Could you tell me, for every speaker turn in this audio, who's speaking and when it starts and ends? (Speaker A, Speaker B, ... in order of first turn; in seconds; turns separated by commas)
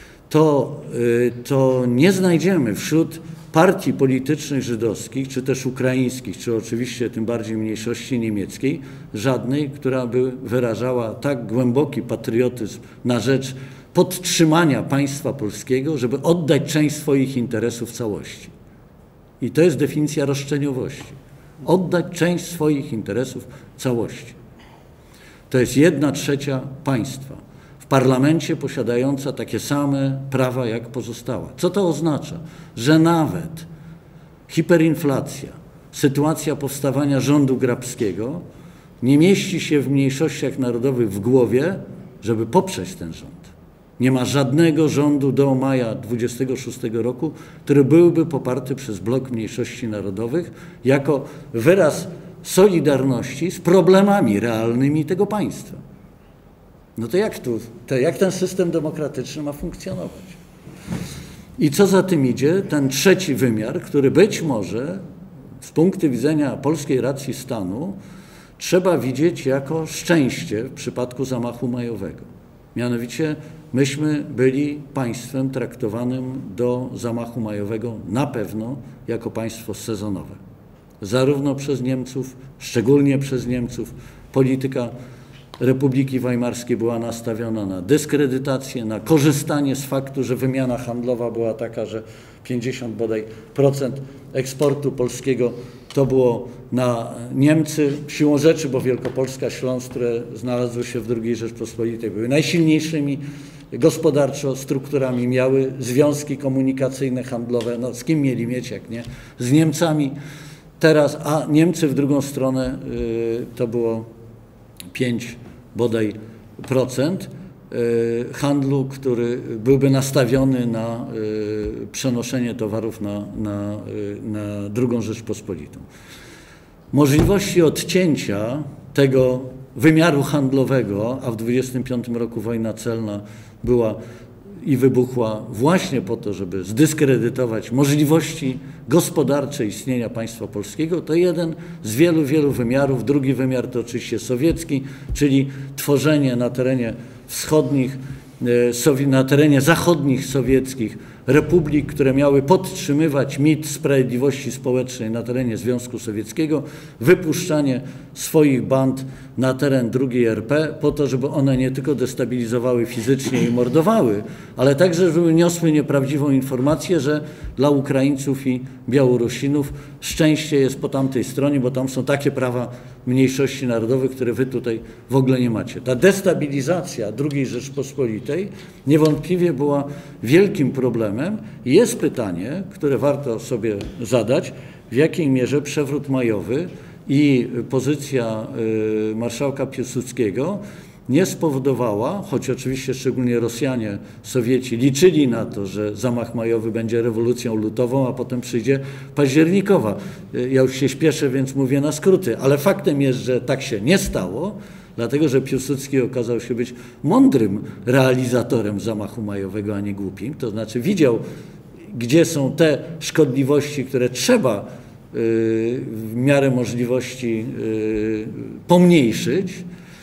Speaker A: 0.3-18.5, Speaker A: 19.4-24.4, Speaker A: 25.5-33.7, Speaker A: 34.5-38.4, Speaker A: 39.0-55.8, Speaker A: 57.0-60.4, Speaker A: 61.6-65.0, Speaker A: 65.6-68.0, Speaker A: 68.6-80.4, Speaker A: 81.0-84.9, Speaker A: 85.6-110.2, Speaker A: 110.8-114.1, Speaker A: 114.9-125.9, Speaker A: 126.9-134.0, Speaker A: 134.6-211.2, Speaker A: 211.9-219.7